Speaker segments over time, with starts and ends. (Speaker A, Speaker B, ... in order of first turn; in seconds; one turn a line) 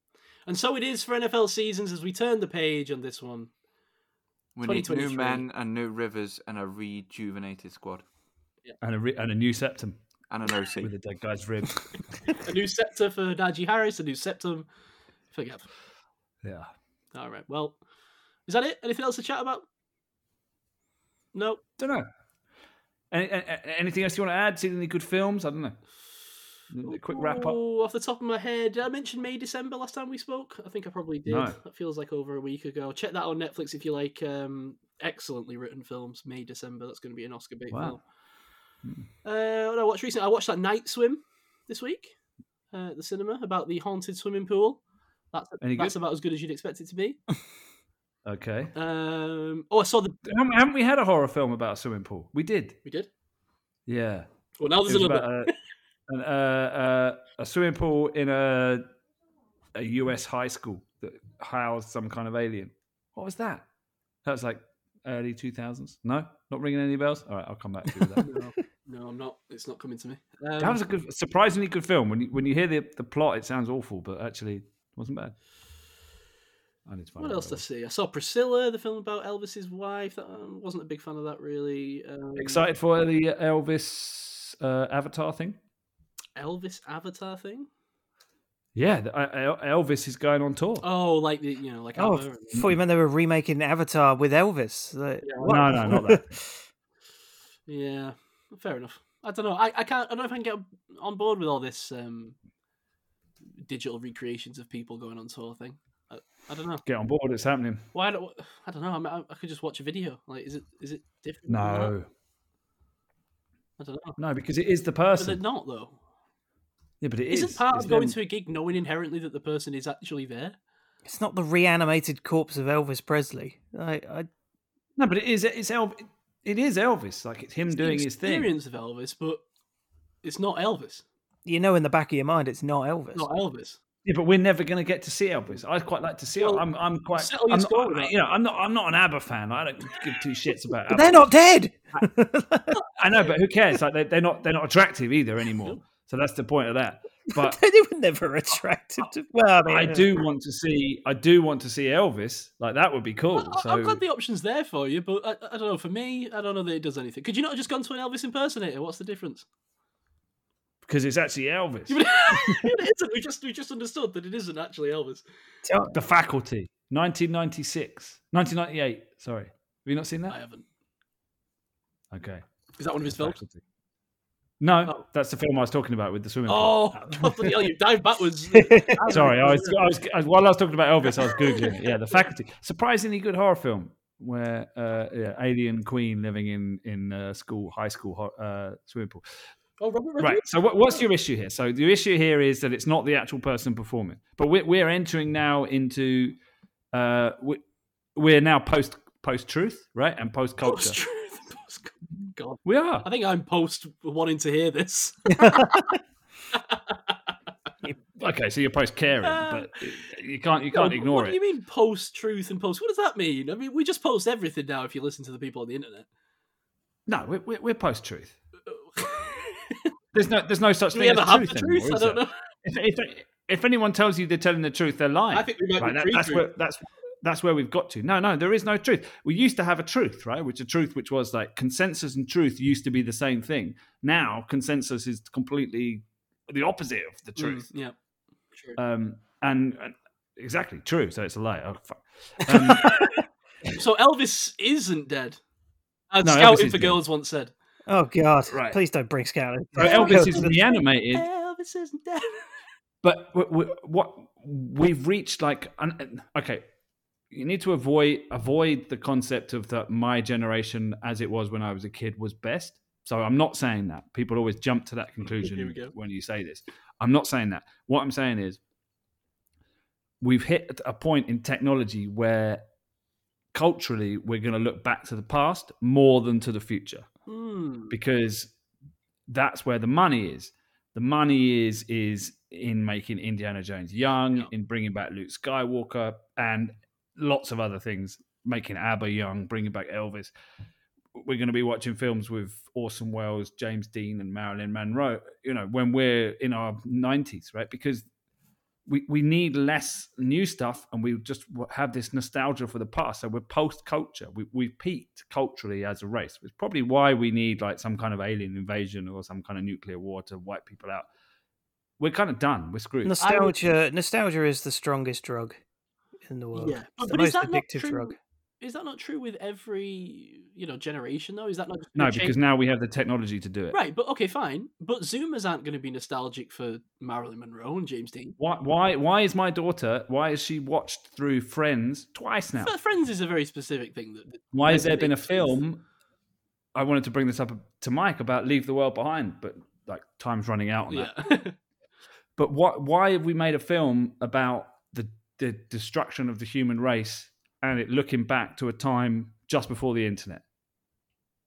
Speaker A: 0.5-3.5
Speaker B: 4.6-8.1
Speaker A: 4.6-5.5
Speaker C: 8.8-10.0
Speaker B: 10.3-10.9
Speaker C: 10.8-12.4
Speaker A: 12.3-14.7
Speaker A: 15.3-15.7
Speaker C: 16.4-16.7
Speaker A: 17.1-17.8
Speaker A: 18.5-19.7
Speaker A: 21.3-21.6
Speaker C: 21.8-22.1
Speaker C: 23.1-26.0
Speaker C: 26.7-27.6
Speaker A: 26.8-38.0
Speaker C: 31.3-31.6
Speaker C: 37.7-38.0
Speaker C: 38.8-39.1
Speaker A: 39.2-42.1
Speaker A: 42.7-44.8
Speaker A: 45.3-47.2
Speaker C: 45.6-46.0
Speaker C: 48.2-48.7
Speaker A: 48.7-50.2
Speaker C: 50.3-52.8
Speaker C: 53.9-55.5
Speaker A: 54.6-55.5
Speaker C: 56.1-58.9
Speaker C: 59.8-63.7
Speaker C: 64.2-68.3
Speaker A: 68.2-70.8
Speaker C: 70.6-75.4
Speaker C: 76.9-77.6
Speaker A: 77.2-82.7
Speaker C: 82.4-85.6
Speaker A: 86.4-87.7
Speaker C: 88.8-90.9
Speaker A: 90.8-92.7
Speaker D: 92.0-96.6
Speaker A: 95.2-95.7
Speaker C: 95.4-96.3
Speaker A: 97.7-102.4
Speaker A: 103.6-106.8
Speaker C: 106.9-107.9
Speaker A: 107.9-111.9
Speaker C: 111.5-112.1
Speaker A: 113.8-114.2
Speaker C: 114.2-115.4
Speaker A: 115.2-116.0
Speaker C: 117.0-118.2
Speaker A: 117.3-120.6
Speaker D: 121.0-124.3
Speaker C: 125.0-128.5
Speaker A: 127.7-129.4
Speaker A: 130.2-131.1
Speaker D: 131.4-133.3
Speaker A: 133.2-133.8
Speaker C: 134.1-141.3
Speaker A: 136.4-138.2
Speaker D: 140.9-142.8
Speaker C: 143.0-147.6
Speaker D: 147.3-150.1
Speaker C: 149.7-154.0
Speaker A: 153.4-159.5
Speaker C: 160.8-162.0
Speaker A: 161.9-165.2
Speaker D: 165.7-165.9
Speaker C: 165.9-170.4
Speaker A: 170.3-170.7
Speaker C: 172.1-173.6
Speaker A: 172.8-173.4
Speaker C: 174.6-177.4
Speaker A: 176.5-179.8
Speaker D: 178.5-179.0
Speaker C: 179.1-189.2
Speaker A: 181.2-181.8
Speaker A: 189.8-191.0
Speaker C: 190.2-196.4
Speaker C: 196.9-197.6
Speaker C: 198.2-201.0
Speaker A: 200.7-205.9
Speaker C: 202.7-203.1
Speaker D: 205.4-205.7
Speaker A: 206.5-207.2
Speaker C: 208.2-211.4
Speaker A: 209.2-210.0
Speaker A: 210.7-216.1
Speaker C: 217.1-218.4
Speaker A: 218.7-219.9
Speaker C: 220.1-237.7
Speaker A: 220.9-222.3
Speaker A: 225.3-226.5
Speaker A: 237.4-237.9
Speaker A: 238.5-238.8
Speaker C: 238.8-243.0
Speaker A: 242.5-243.0
Speaker A: 243.7-245.4
Speaker A: 246.1-247.5
Speaker C: 246.2-247.0
Speaker D: 247.9-250.5
Speaker C: 248.5-248.8
Speaker C: 249.8-251.3
Speaker A: 249.8-252.6
Speaker C: 253.0-256.7
Speaker C: 257.3-268.6
Speaker A: 265.4-265.9
Speaker C: 270.2-272.6
Speaker C: 273.5-277.1
Speaker A: 277.3-278.0
Speaker C: 277.9-278.5
Speaker C: 279.3-290.3
Speaker C: 291.1-298.1
Speaker C: 298.9-311.1
Speaker C: 312.0-313.3
Speaker D: 313.1-315.6
Speaker A: 313.2-313.6
Speaker D: 316.3-318.2
Speaker A: 316.6-322.4
Speaker C: 322.0-323.8
Speaker A: 323.7-328.4
Speaker C: 328.4-332.7
Speaker A: 332.6-335.6
Speaker C: 334.5-335.8
Speaker C: 336.8-341.2
Speaker A: 340.9-341.6
Speaker C: 342.4-350.4